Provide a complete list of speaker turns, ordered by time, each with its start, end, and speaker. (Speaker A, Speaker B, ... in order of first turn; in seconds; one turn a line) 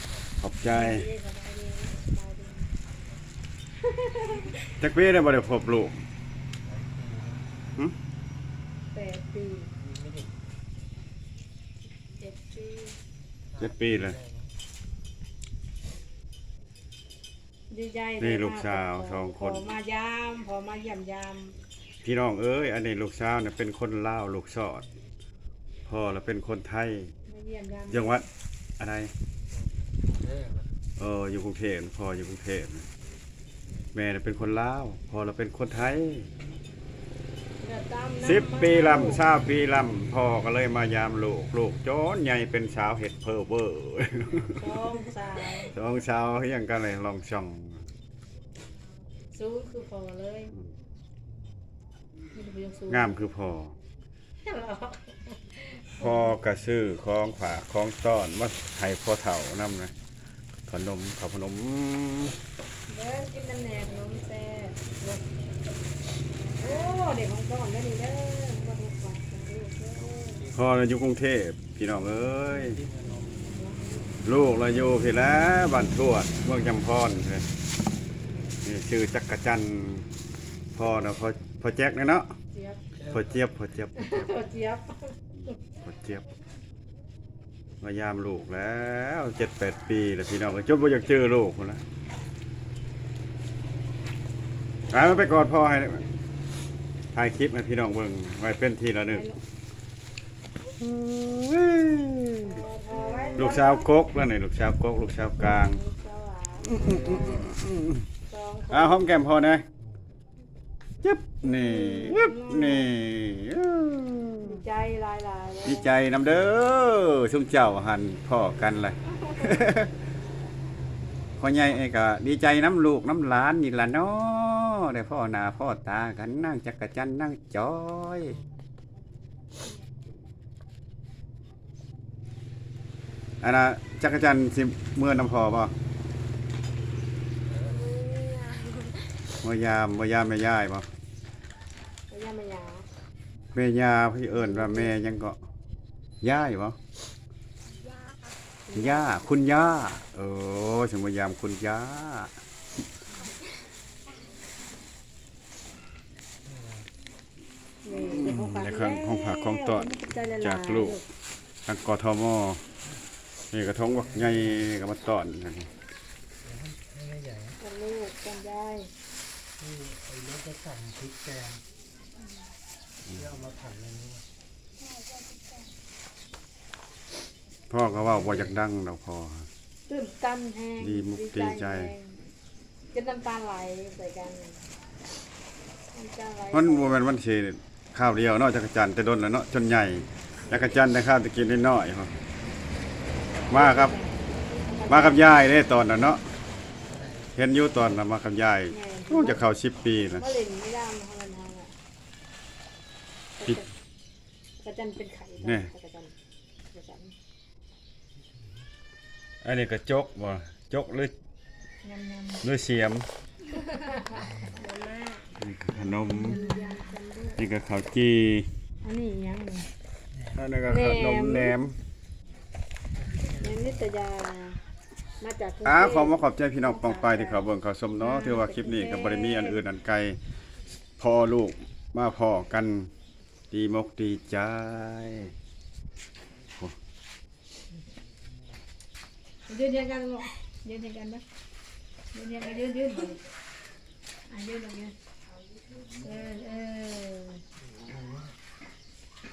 Speaker A: 0.4-1.1
Speaker B: 0.7-2.7
Speaker B: 3.8-4.7
Speaker A: 4.8-6.0
Speaker C: 6.7-7.6
Speaker B: 8.9-9.7
Speaker C: 9.8-10.3
Speaker B: 12.2-13.0
Speaker A: 13.6-14.2
Speaker B: 17.7-21.6
Speaker A: 18.2-19.7
Speaker A: 22.0-24.9
Speaker A: 25.9-27.1
Speaker B: 27.3-28.2
Speaker A: 27.9-28.2
Speaker A: 28.8-29.1
Speaker C: 30.1-30.7
Speaker A: 31.0-32.9
Speaker A: 33.9-36.3
Speaker B: 37.6-39.3
Speaker A: 38.2-44.6
Speaker B: 44.5-45.7
Speaker A: 45.7-47.8
Speaker B: 49.3-50.5
Speaker B: 52.3-53.2
Speaker A: 52.9-53.8
Speaker B: 54.4-56.3
Speaker A: 56.0-59.9
Speaker A: 60.7-62.4
Speaker B: 62.9-65.3
Speaker B: 66.5-70.5
Speaker A: 70.5-72.8
Speaker C: 72.9-73.3
Speaker B: 73.5-74.1
Speaker A: 74.2-77.5
Speaker A: 78.6-80.1
Speaker A: 80.7-82.3
Speaker B: 82.5-82.8
Speaker A: 83.1-84.2
Speaker B: 84.0-85.6
Speaker A: 85.7-86.2
Speaker A: 87.8-91.8
Speaker A: 94.9-96.1
Speaker A: 97.1-99.3
Speaker B: 99.1-99.4
Speaker A: 100.8-102.7
Speaker B: 102.5-103.9
Speaker A: 103.3-105.8
Speaker B: 105.3-107.5
Speaker A: 106.7-108.0
Speaker B: 108.3-109.0
Speaker A: 108.7-109.7
Speaker A: 111.0-114.6
Speaker B: 111.4-112.9
Speaker B: 114.4-115.9
Speaker A: 115.6-119.9
Speaker A: 121.4-128.4
Speaker A: 133.4-135.7
Speaker C: 137.5-137.9
Speaker B: 137.6-139.0
Speaker A: 139.4-140.9
Speaker B: 142.1-142.9
Speaker A: 143.5-145.4
Speaker B: 144.3-144.9
Speaker A: 146.2-146.8
Speaker B: 148.7-149.2
Speaker A: 148.7-152.3
Speaker C: 156.6-156.8
Speaker B: 157.8-161.0
Speaker A: 158.0-161.0
Speaker A: 161.7-162.6
Speaker A: 163.5-165.7
Speaker C: 166.5-167.6
Speaker B: 167.6-168.9
Speaker C: 169.6-171.6
Speaker C: 173.3-174.2
Speaker A: 177.7-179.5
Speaker B: 179.9-182.2
Speaker A: 180.8-181.9
Speaker B: 182.9-184.6
Speaker B: 185.9-187.1
Speaker A: 186.5-192.2
Speaker B: 193.5-195.3
Speaker A: 193.5-194.0
Speaker A: 194.9-196.2
Speaker A: 197.3-200.3
Speaker B: 198.7-199.5
Speaker B: 200.2-201.7
Speaker B: 203.4-203.7
Speaker B: 204.6-206.1
Speaker A: 205.4-205.7
Speaker B: 206.7-207.1
Speaker A: 209.4-211.1
Speaker B: 211.8-212.5
Speaker A: 212.4-213.1
Speaker B: 213.5-215.3
Speaker A: 215.4-216.4
Speaker B: 216.1-217.4
Speaker A: 217.4-218.5
Speaker B: 218.8-219.7
Speaker A: 220.3-221.8
Speaker B: 220.7-221.6
Speaker B: 223.3-224.6
Speaker B: 225.2-227.5
Speaker A: 225.7-230.2
Speaker B: 228.0-229.6
Speaker A: 231.0-232.9
Speaker A: 233.5-235.3
Speaker B: 239.5-241.2
Speaker B: 242.1-243.2
Speaker B: 244.3-244.9
Speaker B: 245.9-247.4